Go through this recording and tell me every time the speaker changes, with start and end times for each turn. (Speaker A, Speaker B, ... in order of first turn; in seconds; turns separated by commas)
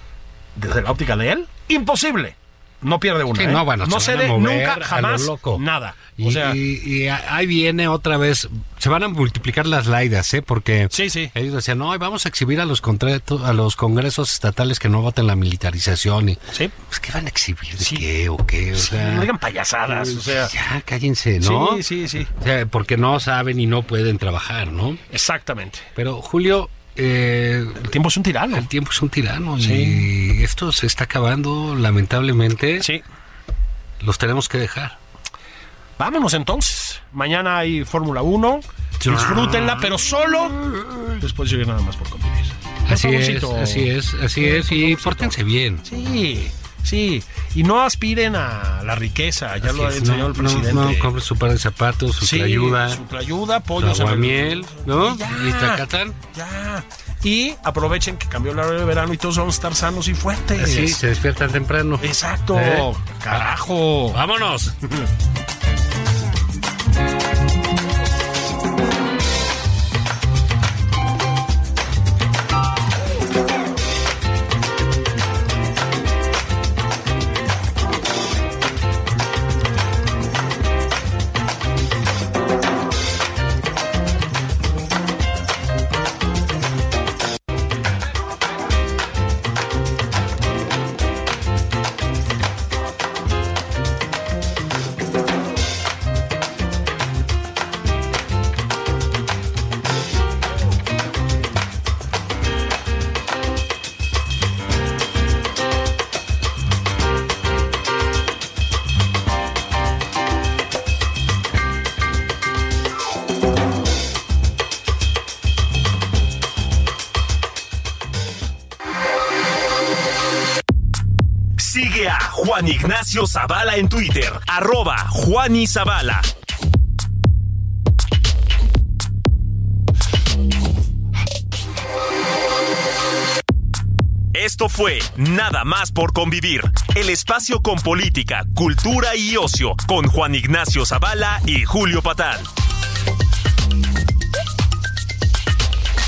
Speaker A: 0.6-6.6, Speaker B: 3.3-5.6, Speaker B: 6.2-19.3, Speaker A: 10.9-11.3, Speaker A: 18.7-20.5, Speaker B: 19.9-21.8, Speaker A: 21.4-22.3, Speaker B: 22.3-25.0, Speaker A: 25.1-25.9, Speaker B: 25.9-27.9, Speaker A: 27.8-28.6, Speaker B: 28.5-32.9, Speaker A: 29.6-30.1, Speaker B: 34.0-35.0, Speaker A: 36.0-40.6, Speaker B: 39.0-39.9, Speaker B: 40.7-41.0, Speaker A: 41.2-45.3, Speaker B: 42.9-45.8, Speaker A: 45.9-51.1, Speaker B: 49.6-53.0, Speaker A: 52.2-61.0, Speaker B: 53.7-56.2, Speaker B: 60.5-63.5, Speaker A: 62.0-64.2, Speaker B: 64.1-64.8, Speaker C: 121.6-126.3, Speaker C: 134.3-142.5